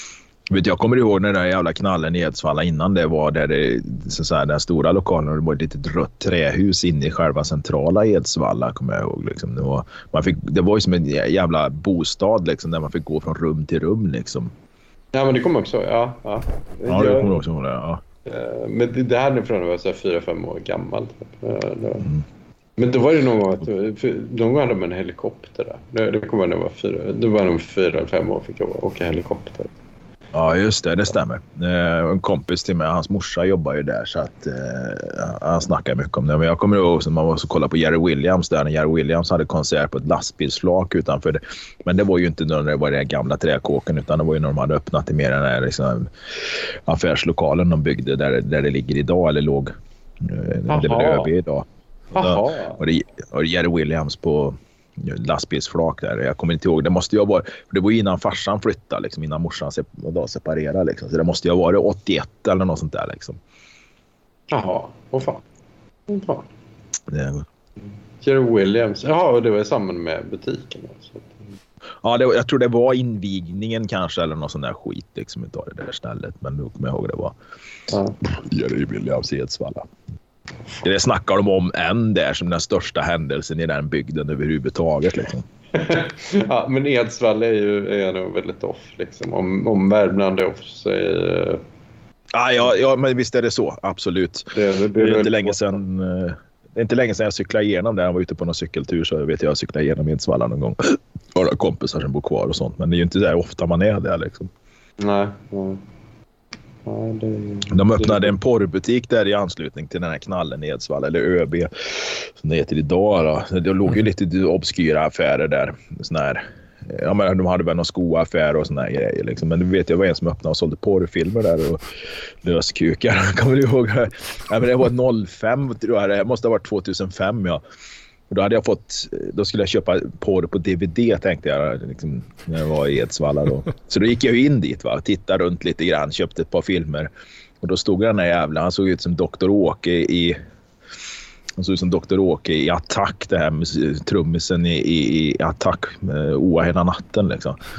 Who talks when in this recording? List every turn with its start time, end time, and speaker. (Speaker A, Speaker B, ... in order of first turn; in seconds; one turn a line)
Speaker A: 0.5-14.5
Speaker B: 15.1-17.4
Speaker A: 16.9-18.0
Speaker B: 18.2-22.1
Speaker B: 22.8-29.7
Speaker A: 30.3-63.4
Speaker B: 50.7-51.3
Speaker B: 52.1-52.8
Speaker B: 64.5-65.4
Speaker B: 66.1-66.5
Speaker A: 67.1-67.5
Speaker B: 68.2-71.5
Speaker A: 72.0-77.4
Speaker B: 77.9-78.2
Speaker A: 78.2-79.9
Speaker A: 80.8-85.5
Speaker B: 85.7-91.6
Speaker A: 92.3-104.5
Speaker B: 94.5-95.8
Speaker B: 105.0-105.8
Speaker B: 106.9-108.4
Speaker A: 107.7-121.8
Speaker A: 122.4-127.6
Speaker A: 128.3-137.1
Speaker A: 137.6-140.4
Speaker A: 141.6-147.6